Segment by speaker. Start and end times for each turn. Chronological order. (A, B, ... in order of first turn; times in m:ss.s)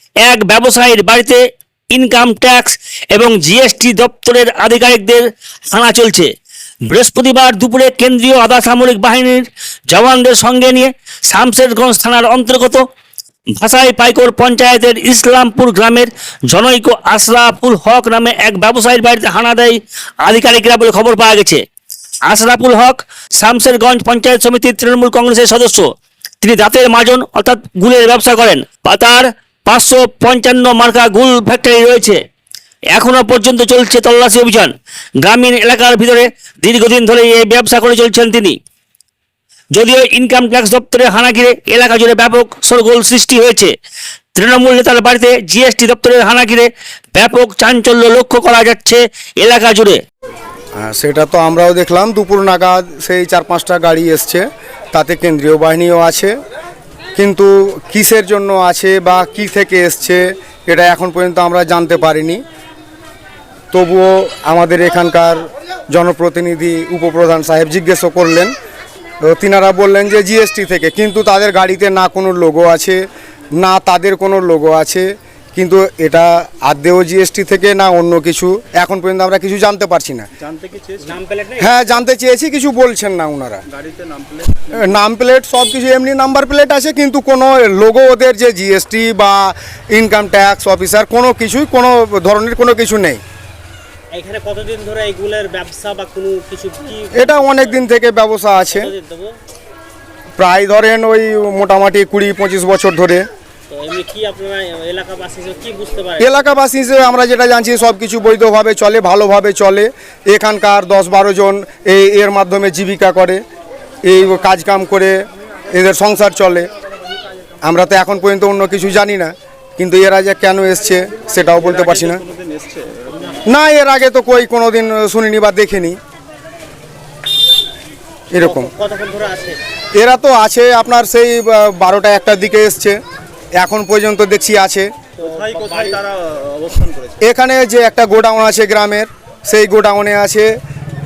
0:00.2-0:01.4 A
0:01.9-0:06.3 A
0:06.9-0:12.8 A
0:13.6-0:21.6 A
0:22.3-0:25.9 A
0:26.4-0:32.2 A
0:32.9-0:38.6 A
0:39.7-0:43.7 A
0:44.4-0:50.0 A
0:50.8-0:56.4 B
0:57.2-1:02.4 B
1:03.7-1:08.5 B
1:09.2-1:13.0 B
1:13.6-1:20.3 B
1:20.4-1:21.2 C
1:21.0-1:21.7 D
1:21.6-1:23.6 B
1:23.7-1:25.0 C
1:24.8-1:33.2 B
1:34.1-1:37.8 D
1:37.1-1:38.9 B
1:38.7-1:39.4 D
1:40.4-1:43.2 B
1:43.7-1:46.3 D
1:46.2-1:53.4 B
1:54.1-1:56.7 B
1:57.6-2:02.2 B
2:01.5-2:03.4 C
2:03.5-2:06.0 B
2:08.3-2:08.7 B
2:08.4-2:09.6 D
2:10.0-2:13.0 B
2:13.6-2:14.9 B
2:15.2-2:16.0 D
2:15.2-2:17.2 C
2:17.2-2:20.5 B